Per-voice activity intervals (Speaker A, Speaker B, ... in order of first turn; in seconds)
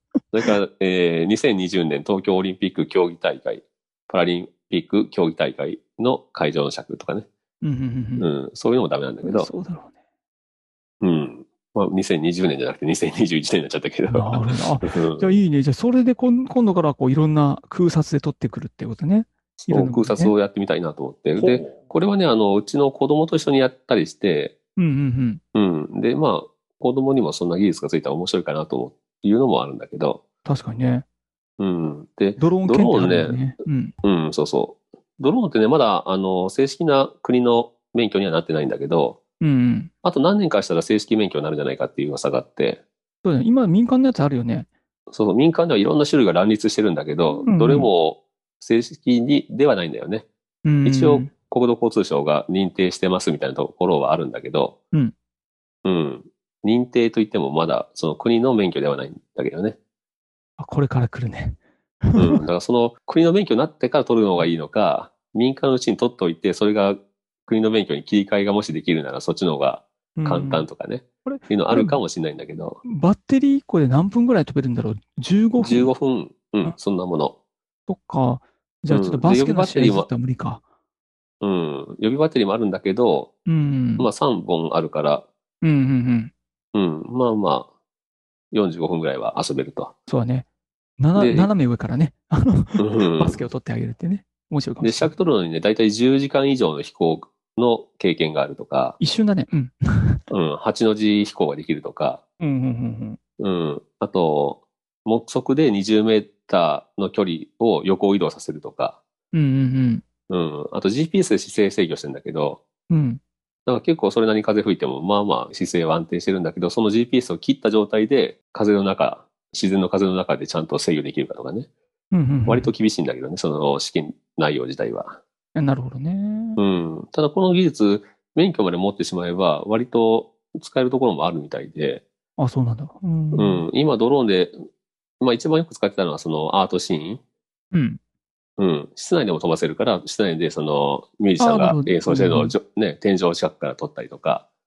Speaker A: 0.3-7.3, 8.2-9.5, 11.0-15.3, 19.6-24.5, 25.6-30.2, 31.6-33.5, 34.0-39.2, 40.0-42.8, 45.1-50.3, 50.9-54.8, 55.9-59.8, 62.2-72.8, 75.6-77.3, 78.9-80.1, 81.4-83.3, 84.0-85.3, 86.7-87.7, 88.5-89.9, 91.2-91.5, 92.8-93.4, 94.8-99.0, 100.3-102.2, 103.4-109.0, 110.3-112.6, 113.7-121.7, 122.5-125.2, 126.6-132.0, 133.3-134.6, 135.2-137.2, 138.6-144.5
Speaker B: 7.6-8.3, 9.2-9.9, 14.1-20.3, 21.4-21.7, 24.8-25.4, 30.4-31.0, 32.4-33.9, 39.4-39.9, 43.2-44.7, 47.4-47.9, 50.6-51.3, 60.6-62.4, 70.2-70.7, 71.2-72.0, 72.8-75.9, 77.9-80.6, 83.5-84.1, 85.6-86.3, 90.1-90.5, 91.0-95.1, 99.0-100.2, 102.4-103.2, 109.3-110.0, 112.9-113.2, 122.1-122.7, 125.6-126.6, 132.4-133.7, 137.7-138.0, 141.4-142.6